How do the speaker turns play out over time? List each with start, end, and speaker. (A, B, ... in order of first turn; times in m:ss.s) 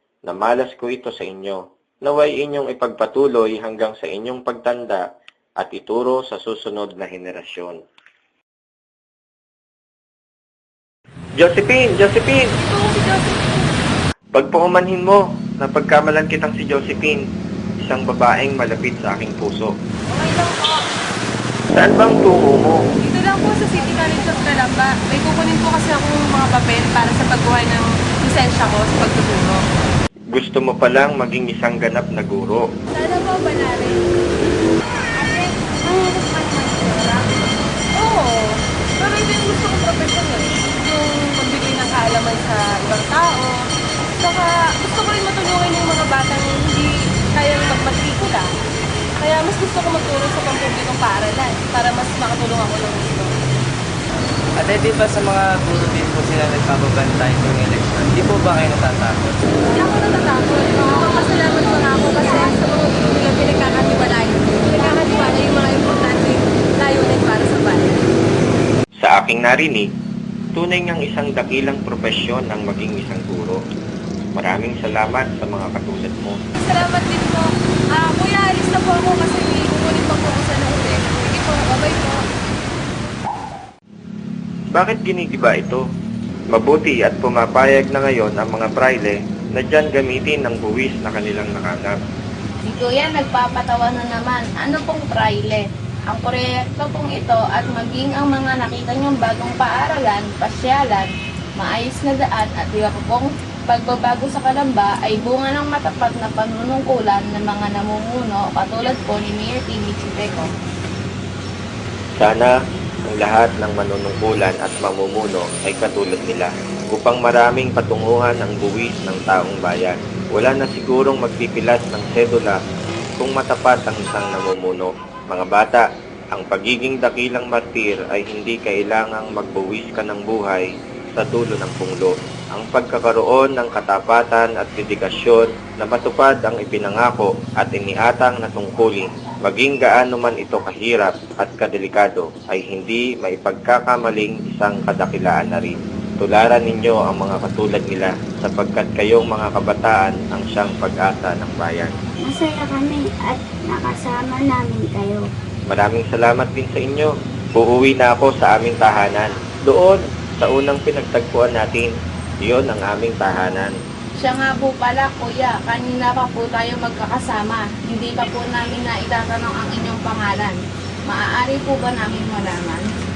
0:00.2-0:05.0 A
0:05.6-0:07.8 A
0:11.4-0:12.5 A
0:12.6-0:13.6 B
0:14.3-0:17.3 A
0:17.8-0:19.7 A
0:20.1-0:20.8 B
0:21.7-0:22.8 A
0:23.0-0:29.6 B
0:30.3-0:32.6 A
0:32.9-0:34.0 B
0:35.2-0:37.3 B
0:37.9-0:43.6 B
0:44.2-0:48.5 B
0:49.2-0:53.3 B
0:54.6-0:59.2 C
0:59.7-1:08.0 B
1:09.0-1:09.9 A
1:10.5-1:13.6 A
1:14.3-1:16.4 A
1:16.6-1:22.2 B
1:24.8-1:25.8 A
1:26.5-1:32.0 A
1:32.6-1:50.5 D
1:52.2-1:52.5 A
1:53.1-2:02.6 A
2:03.2-2:32.0 A
2:32.2-2:35.2 E
2:35.7-2:41.9 A
2:42.4-2:43.8 A
2:44.2-2:52.9 D